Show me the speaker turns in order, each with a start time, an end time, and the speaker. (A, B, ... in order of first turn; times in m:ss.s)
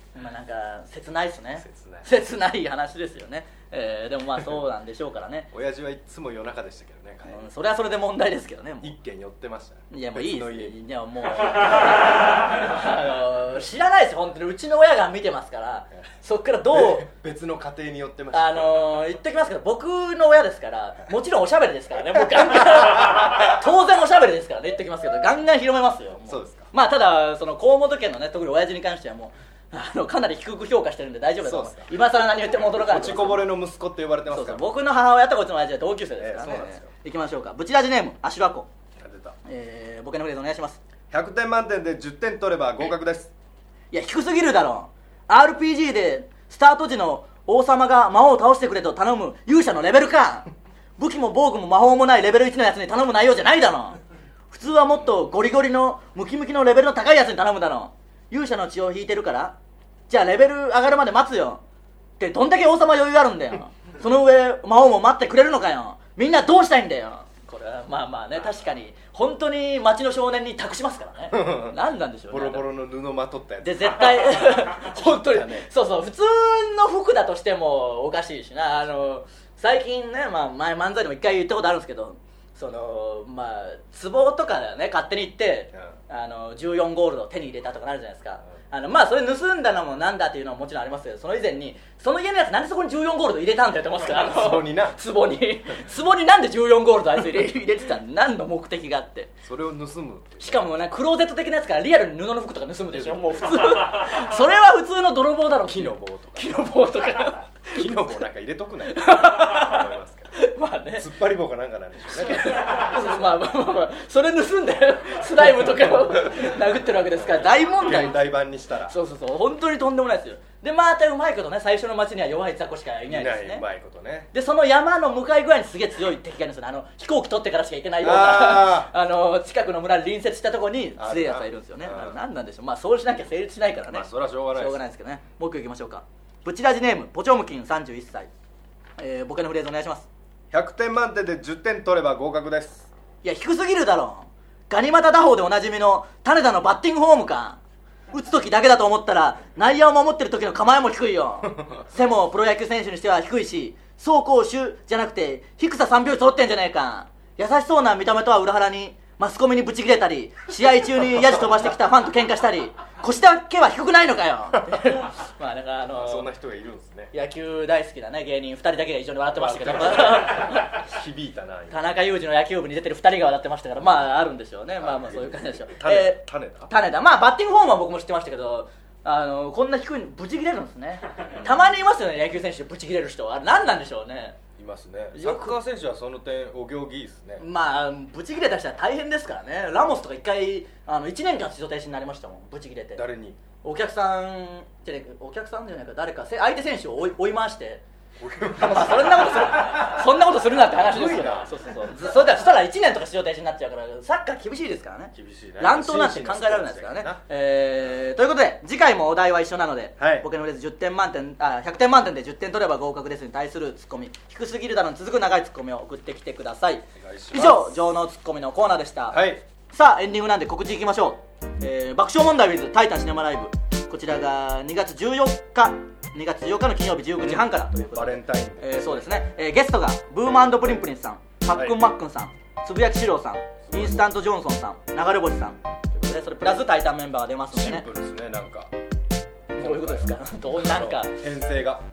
0:00.2-0:05.5 A
0:01.6-0:02.1 B
0:05.5-0:07.4 B
0:07.3-0:09.0 A
0:08.8-0:10.8 B
0:09.9-0:17.1 A
0:16.7-0:19.0 B
0:18.3-0:33.5 A
0:26.3-0:26.7 B
0:31.4-0:34.6 B
0:34.3-0:38.7 A
0:36.2-0:36.9 B
0:39.0-0:39.4 B
0:39.4-0:40.8 A
0:41.1-0:43.3 B
0:43.9-0:50.5 A
0:51.0-0:54.0 A
0:54.5-0:59.6 A
1:00.1-1:01.6 A
1:02.2-1:12.6 A
1:11.3-1:11.8 B
1:12.3-1:15.7 B
1:13.6-1:39.3 A
1:34.1-1:35.0 B
1:39.4-1:40.7 B
1:40.4-1:47.9 A
1:42.9-1:43.7 B
1:45.7-1:46.6 B
1:47.7-1:50.3 B
1:48.8-1:51.1 A
1:51.0-1:52.8 B
1:52.1-1:58.2 A
1:56.1-1:56.5 B
1:57.2-1:59.0 B
1:58.9-2:03.6 A
2:03.1-2:04.3 B
2:04.3-2:18.3 A
2:08.0-2:08.9 B
2:11.0-2:12.2 B
2:13.9-2:14.8 B
2:19.0-2:20.1 A
2:20.5-2:22.9 B
2:23.2-2:27.6 A
2:28.1-2:46.3 A
2:46.0-2:47.1 B
2:47.1-2:50.8 A
2:49.4-2:51.8 B
2:51.7-3:04.4 A
2:54.8-2:56.7 B
3:04.6-3:07.4 B
3:05.1-3:05.6 A
3:07.4-3:13.0 A
3:13.0-3:13.4 B
3:13.6-3:17.8 A
3:18.2-3:21.6 B
3:18.6-3:57.9 A
3:25.2-3:27.2 B
3:30.0-3:30.3 B
3:37.0-3:37.8 B
3:39.1-3:39.4 B
3:47.2-3:49.1 B
3:53.7-3:54.1 B
3:57.5-3:58.7 B
3:59.5-4:01.1 A
3:59.6-4:01.8 B